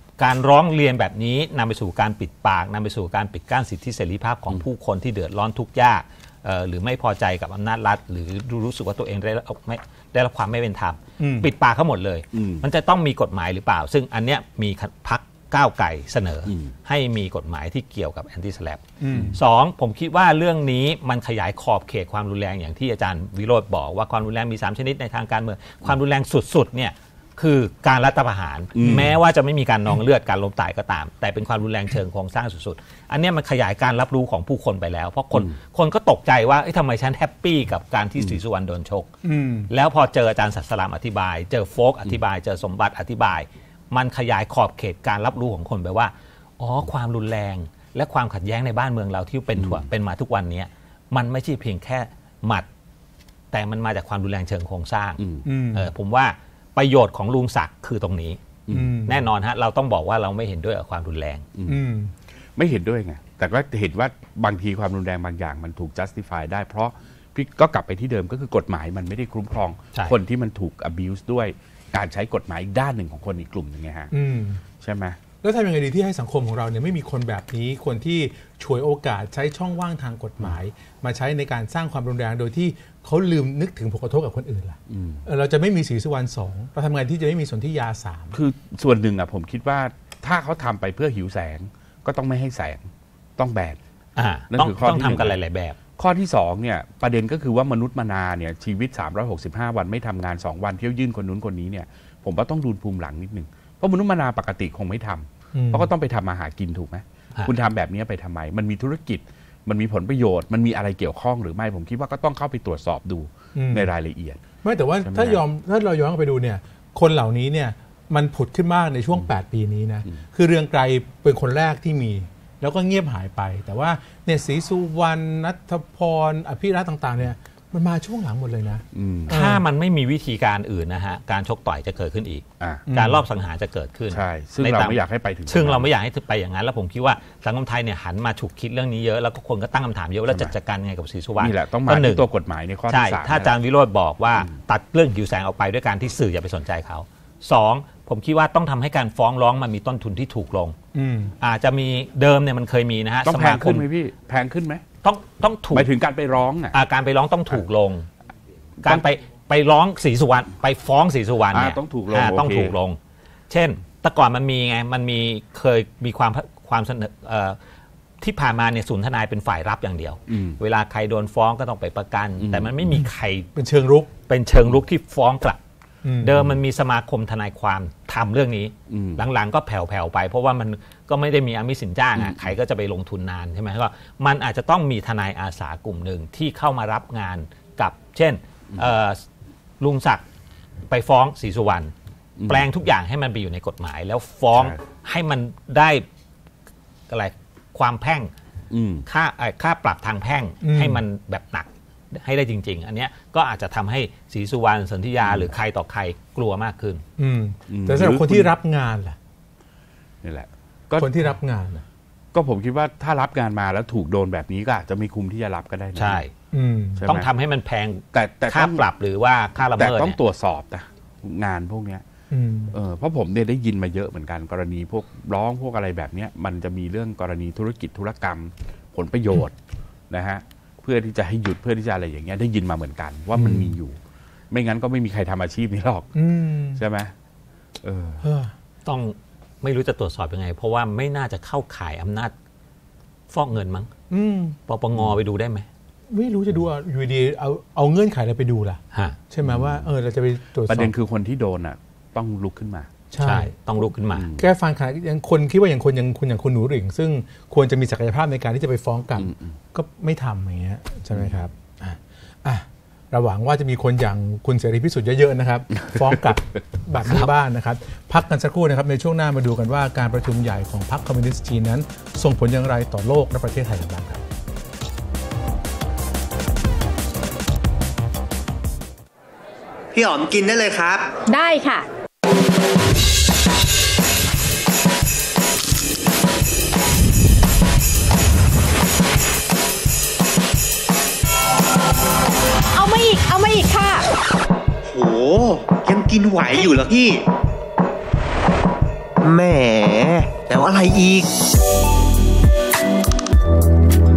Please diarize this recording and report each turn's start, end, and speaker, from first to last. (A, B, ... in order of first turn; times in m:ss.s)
0:00.2-0:18.8 A
0:11.2-0:11.5 B
0:12.3-0:12.6 C
0:16.4-0:16.7 C
0:19.0-0:19.4 B
0:19.1-0:19.4 C
0:19.3-0:39.1 A
0:28.7-0:29.2 C
0:28.8-0:29.1 B
0:39.2-0:39.7 B
0:39.7-0:52.7 A
0:49.6-0:49.9 C
0:53.5-0:58.4 A
0:55.2-0:55.4 C
0:55.4-0:55.9 B
0:58.7-0:59.0 C
0:58.7-0:59.2 B
0:59.0-1:01.5 A
1:01.6-1:01.8 C
1:01.6-1:02.1 B
1:02.6-1:14.1 C
1:14.1-1:14.6 B
1:14.8-1:15.2 C
1:15.4-1:28.4 B
1:24.9-1:25.2 C
1:28.3-1:33.8 C
1:34.2-1:35.8 A
1:34.5-1:35.4 C
1:36.0-1:54.4 C
1:45.5-1:45.9 B
1:53.6-1:53.9 B
1:54.6-2:09.6 B
1:55.0-1:55.4 C
2:08.9-2:09.3 C
2:09.3-2:22.2 A
2:12.9-2:13.2 B
2:14.1-2:15.9 C
2:20.3-2:20.5 C
2:21.4-2:23.5 C
2:22.9-2:30.8 A
2:30.9-2:31.3 B
2:31.4-2:33.9 A
2:33.2-2:34.8 C
2:35.0-2:35.9 A
2:35.7-2:36.8 C
2:36.7-2:38.1 A
2:38.8-2:39.1 C
2:38.8-2:43.0 A
2:41.5-2:42.7 C
2:43.5-2:47.6 A
2:48.2-2:53.5 A
2:50.3-2:50.6 C
2:52.4-2:52.7 C
2:52.9-2:54.1 B
2:54.3-2:55.6 A
2:56.0-2:56.5 B
2:56.2-3:09.2 A
2:58.9-2:59.2 C
3:02.1-3:02.5 C
3:09.8-3:10.2 A
3:10.9-3:11.9 A
3:12.4-3:12.6 C
3:12.4-3:16.1 A
3:14.5-3:14.8 C
3:17.1-3:18.3 A
3:18.7-3:19.1 C
3:19.1-3:27.0 A
3:20.6-3:21.0 B
3:25.2-3:25.5 C
3:27.2-3:29.2 B
3:27.7-3:28.5 C
3:30.2-3:31.3 C
3:31.0-3:31.8 B
3:32.3-3:36.2 C
3:35.9-3:36.3 A
3:36.5-3:37.1 B
3:37.0-3:37.3 C
3:37.1-3:40.2 A
3:38.1-3:38.9 C
3:39.6-3:42.0 C
3:42.3-3:42.8 B
3:42.7-3:49.5 C
3:50.1-3:54.0 C
3:53.3-3:53.8 B
3:54.5-3:56.1 C
3:56.1-3:56.8 B
3:56.7-3:57.1 C
3:57.8-3:58.2 C
3:58.2-3:58.5 B
3:58.8-4:02.3 A
4:03.3-4:03.9 A
4:04.1-4:04.6 B
4:04.7-4:05.7 A
4:06.1-4:10.9 B
4:09.4-4:09.9 C
4:10.7-4:12.9 C
4:13.1-4:13.5 B
4:13.2-4:14.3 A
4:14.1-4:14.5 C
4:14.4-4:34.2 B
4:19.2-4:19.5 C
4:21.1-4:21.4 C
4:39.9-4:41.2 D
4:41.3-4:41.9 E
4:52.7-4:54.1 E
4:54.9-4:57.2 D
4:59.2-5:01.3 D